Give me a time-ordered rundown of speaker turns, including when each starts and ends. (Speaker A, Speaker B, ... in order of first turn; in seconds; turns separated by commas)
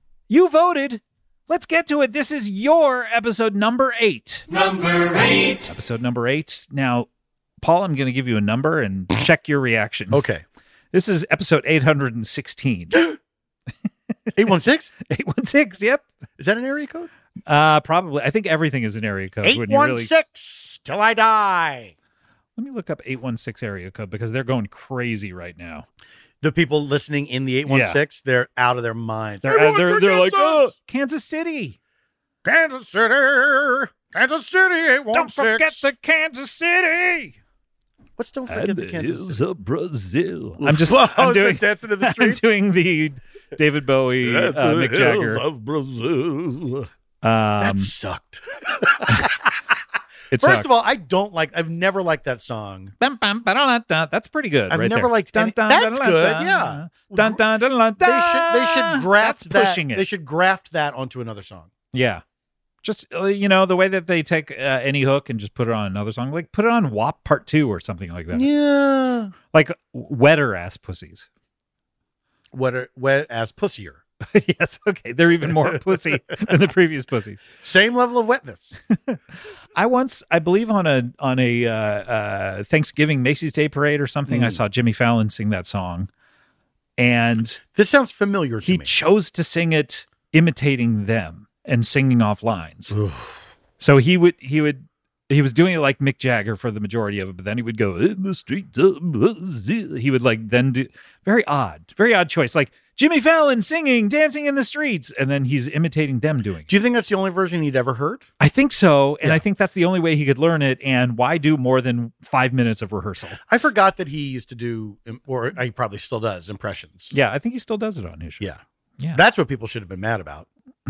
Speaker A: 0.3-4.5, Speaker A: 5.4-7.1, Speaker A: 7.6-10.2, Speaker B: 10.1-10.4, Speaker A: 10.9-13.1, Speaker B: 14.3-14.9, Speaker A: 15.1-16.1, Speaker B: 16.4-17.1, Speaker A: 17.5-20.1, Speaker B: 19.4-21.9, Speaker A: 22.6-25.9, Speaker B: 26.4-30.7, Speaker A: 27.7-28.0, Speaker A: 29.4-31.8, Speaker B: 32.4-35.9, Speaker A: 35.1-37.4, Speaker B: 38.2-39.4, Speaker A: 38.5-45.4, Speaker B: 40.6-42.5, Speaker B: 44.2-46.9, Speaker A: 47.2-47.9, Speaker B: 47.6-49.6, Speaker A: 50.3-50.7, Speaker B: 50.4-52.9, Speaker A: 53.0-60.0, Speaker B: 54.7-57.4, Speaker B: 58.0-61.7, Speaker A: 61.9-62.2, Speaker A: 62.8-68.5, Speaker B: 68.3-69.3, Speaker A: 69.5-71.3, Speaker B: 72.5-74.0, Speaker A: 74.3-77.4, Speaker B: 77.6-78.7, Speaker A: 79.7-86.1, Speaker B: 84.3-84.6, Speaker A: 87.0-87.6, Speaker B: 87.7-88.9, Speaker A: 88.6-92.9, Speaker B: 92.9-93.3, Speaker A: 93.8-106.7, Speaker B: 106.7-108.3, Speaker A: 108.4-113.4, Speaker B: 113.5-117.1, Speaker A: 117.1-118.4, Speaker B: 119.1-120.5